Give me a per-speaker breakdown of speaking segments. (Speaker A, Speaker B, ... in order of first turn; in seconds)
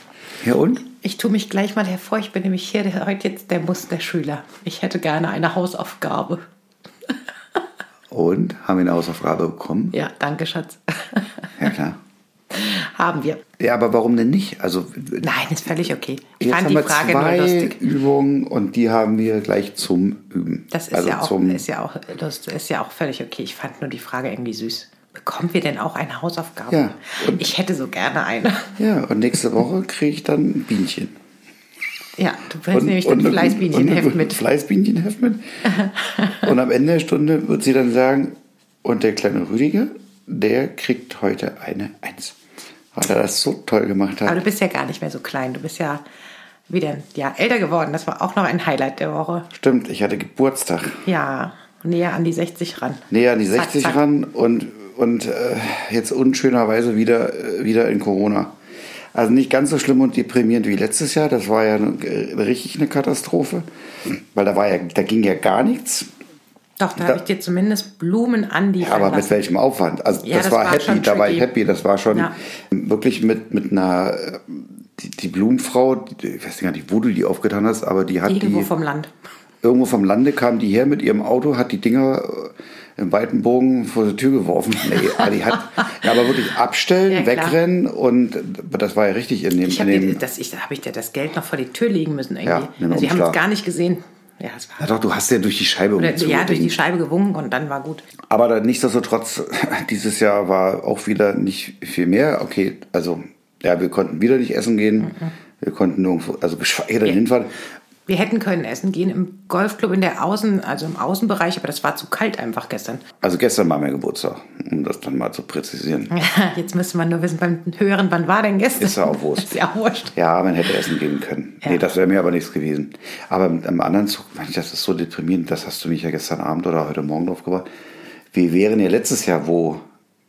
Speaker A: 0.4-0.8, 8.1-10.0, 11.6-12.0, 13.6-15.3, 16.4-21.6, 26.7-27.5, 28.8-31.2, 32.7-35.7, 36.3-42.4, 42.9-44.4, 49.5-51.1, 53.1-58.5, 59.1-66.1, 68.8-78.7, 79.6-90.2, 92.5-93.4, 94.8-96.8, 98.3-107.5, 113.2-116.1, 118.8-119.6, 120.1-127.7, 128.3-129.8
Speaker B: 0.8-6.4, 9.9-11.5, 12.5-13.4, 15.2-17.8, 20.7-28.8, 32.2-34.4, 35.7-36.4, 44.3-46.0, 46.7-49.5, 51.0-54.0, 66.8-69.4, 70.2-71.5, 78.3-79.1, 87.1-87.6, 89.6-94.9, 96.0-98.1, 108.1-113.0, 116.1-120.1